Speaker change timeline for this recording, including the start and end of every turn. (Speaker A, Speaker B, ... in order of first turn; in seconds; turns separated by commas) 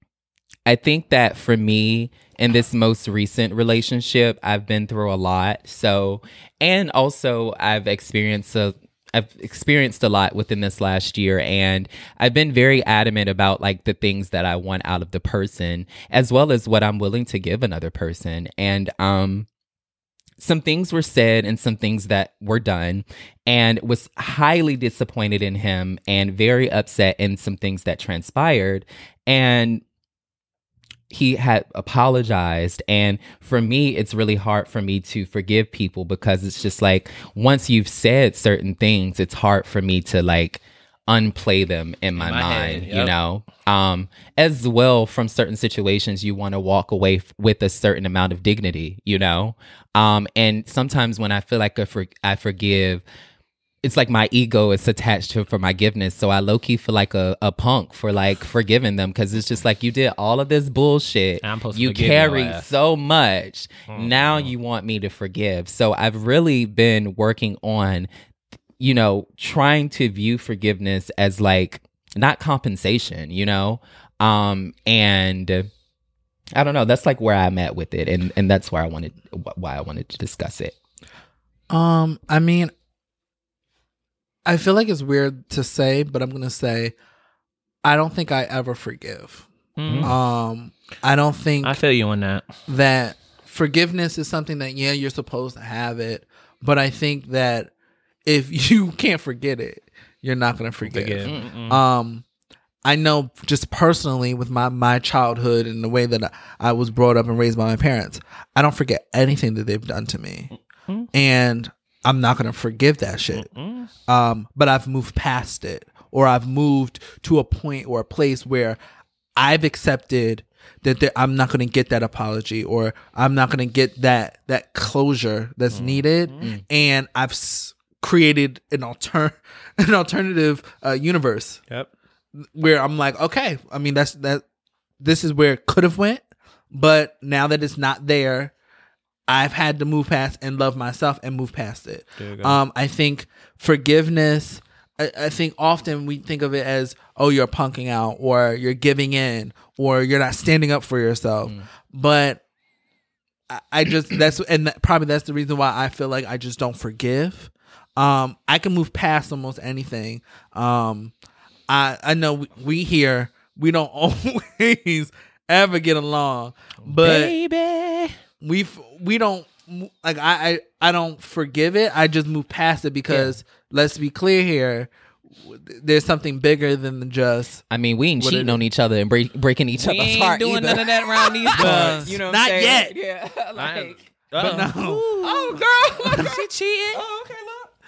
Speaker A: 0.7-19.5, Speaker A: 20.4-29.8, Speaker A: 31.1-53.0, Speaker B: 42.2-43.1, Speaker A: 53.8-68.1, Speaker B: 61.4-62.7, Speaker B: 63.9-64.5, Speaker A: 68.8-75.7, Speaker A: 76.5-80.8, Speaker C: 81.7-82.7, Speaker C: 84.5-87.0, Speaker C: 87.8-89.5, Speaker B: 89.8-90.1, Speaker A: 89.9-90.1, Speaker C: 90.0-91.8, Speaker B: 91.6-92.5, Speaker C: 92.7-97.7, Speaker C: 98.3-102.2, Speaker B: 100.8-101.8, Speaker A: 101.2-101.5, Speaker C: 102.8-110.5, Speaker C: 111.1-113.5, Speaker B: 113.3-113.9, Speaker C: 114.1-118.8, Speaker C: 119.4-131.6, Speaker B: 125.7-126.5, Speaker C: 132.4-134.4, Speaker C: 135.0-138.5, Speaker C: 139.3-152.4, Speaker B: 142.2-142.6, Speaker C: 153.5-161.1, Speaker C: 161.7-167.4, Speaker B: 167.0-168.2, Speaker C: 168.4-174.9, Speaker C: 175.4-177.6, Speaker A: 177.7-184.0, Speaker C: 178.2-178.6, Speaker B: 179.8-182.2, Speaker C: 181.5-182.9, Speaker B: 183.6-187.0, Speaker C: 184.4-185.1, Speaker A: 185.2-187.7, Speaker C: 186.0-186.3